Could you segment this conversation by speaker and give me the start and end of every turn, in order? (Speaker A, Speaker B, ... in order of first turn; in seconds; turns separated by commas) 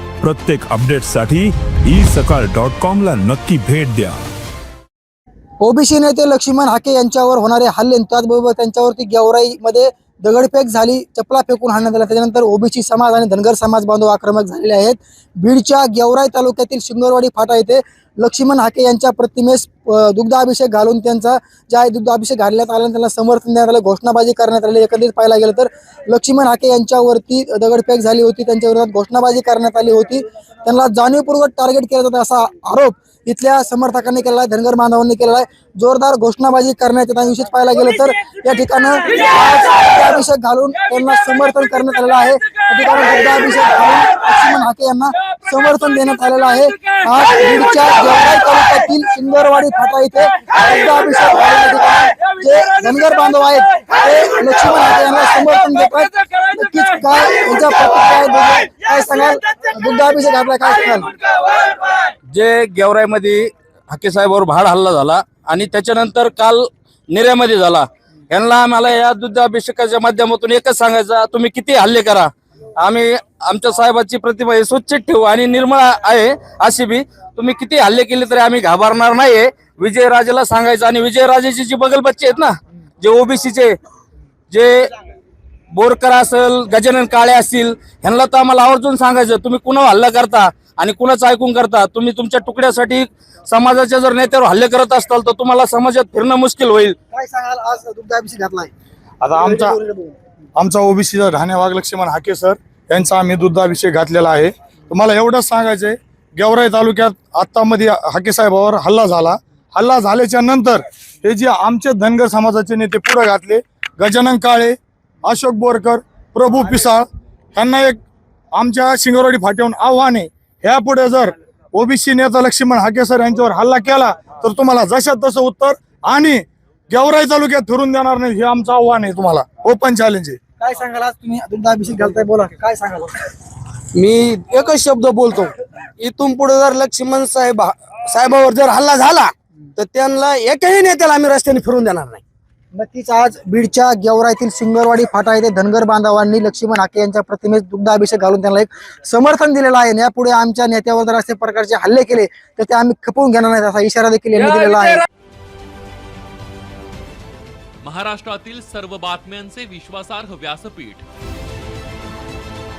Speaker A: 0.2-4.2, Speaker B: 5.6-61.1, Speaker C: 62.3-83.7, Speaker C: 84.5-84.9, Speaker C: 85.7-97.0, Speaker B: 97.1-98.7, Speaker D: 99.2-99.8, Speaker B: 99.3-100.1, Speaker D: 100.5-118.0, Speaker D: 118.5-130.4, Speaker B: 130.6-133.2, Speaker E: 133.9-142.2, Speaker B: 142.7-155.0, Speaker F: 157.8-161.0